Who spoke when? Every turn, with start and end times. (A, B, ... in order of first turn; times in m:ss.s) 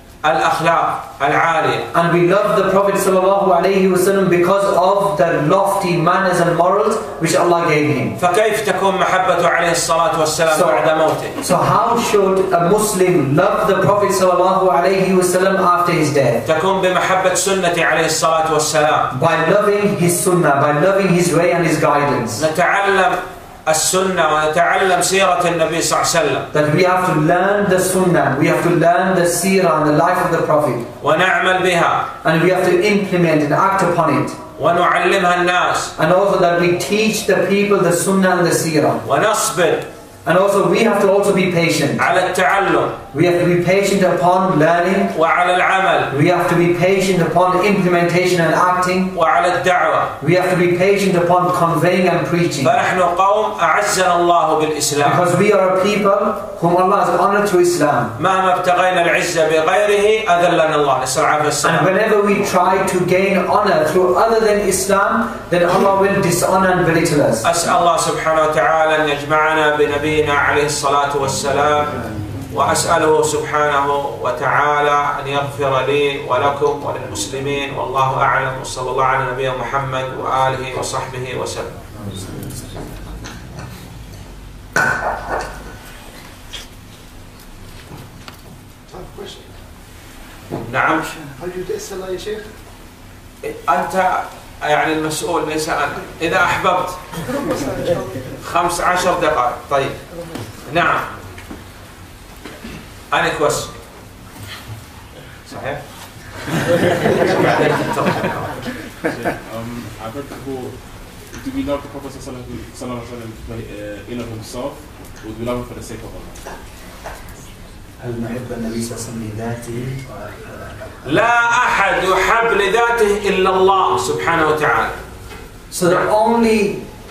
0:00.2-0:01.9 A
0:01.9-0:08.2 B
0:08.2-0:11.4 A
0:10.5-0:16.4 B
0:16.4-0:19.1 A
0:19.1-0:22.4 B
0:22.4-0:26.5 A
0:26.5-0:30.9 B
0:31.0-0:32.1 A
0:32.2-0:34.4 B
0:34.6-0:35.9 A
0:36.0-0:39.0 B
0:39.0-0:39.9 A
0:40.2-0:42.0 B
0:42.0-0:43.0 A
0:43.1-0:45.1 B
0:45.1-0:46.1 A
0:46.1-0:49.1 B
0:49.1-0:50.1 A
0:50.2-0:52.8 B
0:52.6-0:55.2 A
0:55.0-0:58.2 B
0:58.2-1:01.9 A
1:01.6-1:07.4 B
1:07.4-1:21.7 A
1:28.9-1:29.5 C
1:30.6-1:31.1 A
1:31.2-1:32.5 C
1:33.4-1:37.1 A
1:37.3-1:38.2 C
1:38.4-1:40.0 A
1:40.6-1:41.1 A
1:43.1-1:43.7 A
1:45.4-1:45.8 A
1:47.1-1:48.5 A
1:49.0-1:56.4 D
1:58.0-2:00.6 B
2:01.0-2:05.0 A
2:05.7-2:06.8 B